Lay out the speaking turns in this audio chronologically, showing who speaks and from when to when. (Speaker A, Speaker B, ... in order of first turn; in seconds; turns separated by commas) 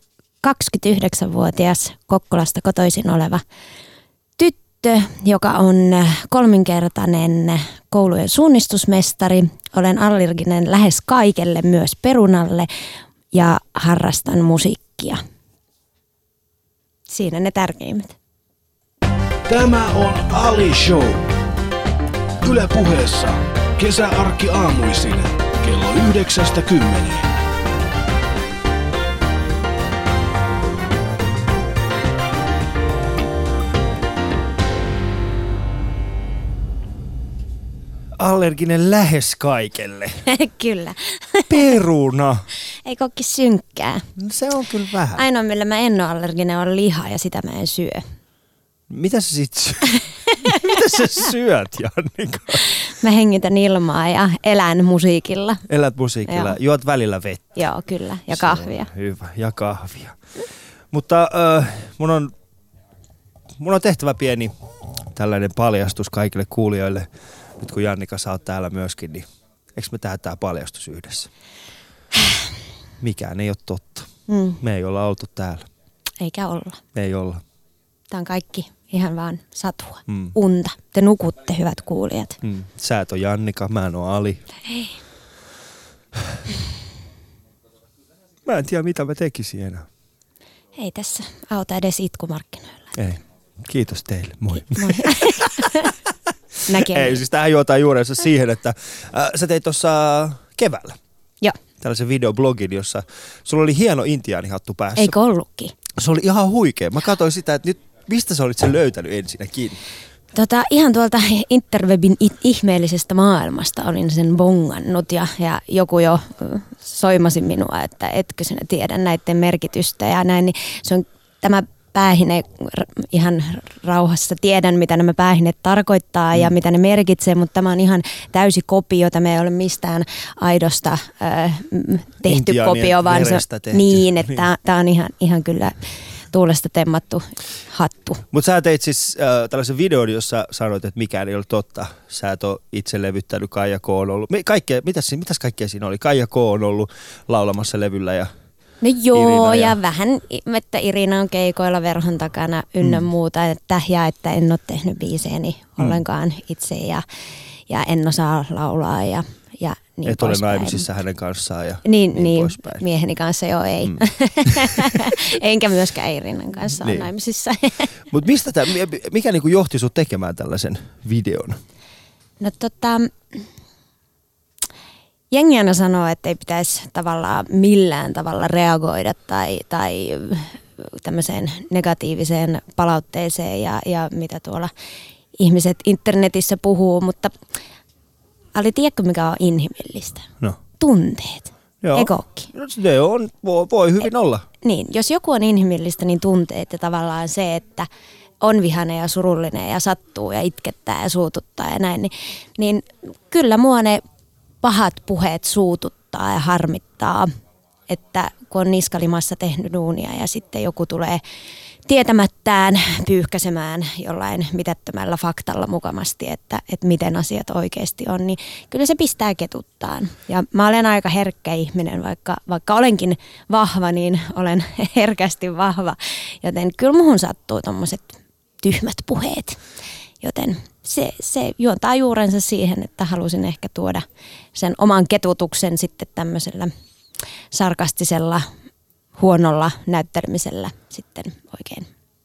Speaker A: 0.4-3.4, Speaker A: 4.4-12.7, Speaker A: 13.3-15.2, Speaker A: 17.1-18.2, Speaker B: 19.5-21.3, Speaker B: 22.4-27.3, Speaker C: 38.2-40.2, Speaker A: 40.2-41.8, Speaker C: 41.5-42.5, Speaker A: 42.8-44.1, Speaker C: 44.2-45.2, Speaker A: 45.1-48.0, Speaker C: 48.9-49.9, Speaker A: 49.9-51.0, Speaker C: 50.4-52.7, Speaker A: 52.7-55.6, Speaker C: 55.7-57.6, Speaker A: 56.3-56.5, Speaker A: 57.5-58.9, Speaker C: 58.3-60.2, Speaker C: 60.9-62.3, Speaker C: 63.6-64.5, Speaker C: 65.1-67.1, Speaker C: 67.6-71.3, Speaker C: 73.0-74.1, Speaker A: 74.3-74.6, Speaker C: 74.6-75.7, Speaker A: 76.2-76.8, Speaker C: 76.9-77.4, Speaker A: 78.1-82.4, Speaker C: 80.1-80.3, Speaker C: 82.4-84.4, Speaker A: 84.7-85.0, Speaker C: 88.4-89.9, Speaker A: 90.8-92.9, Speaker C: 92.9-101.0, Speaker A: 94.8-95.9, Speaker A: 96.7-97.2, Speaker C: 101.8-105.1, Speaker A: 105.0-105.8, Speaker C: 105.9-109.8, Speaker A: 110.3-138.2, Speaker C: 132.2-134.4, Speaker C: 138.3-148.3, Speaker A: 148.8-157.0, Speaker C: 149.1-149.8, Speaker C: 152.8-153.1, Speaker A: 157.7-160.9, Speaker C: 160.1-162.8, Speaker A: 161.8-168.0, Speaker C: 163.8-165.2, Speaker C: 166.8-167.1, Speaker C: 168.1-171.6, Speaker A: 172.4-173.4, Speaker A: 175.3-184.7, Speaker A: 185.4-187.4, Speaker A: 188.5-192.5, Speaker C: 191.8-194.4, Speaker A: 194.6-197.9, Speaker A: 198.4-204.0, Speaker A: 204.6-207.3, Speaker A: 207.9-211.2, Speaker A: 211.8-229.6, Speaker A: 230.2-236.7, Speaker A: 237.5-238.5, Speaker A: 239.2-241.9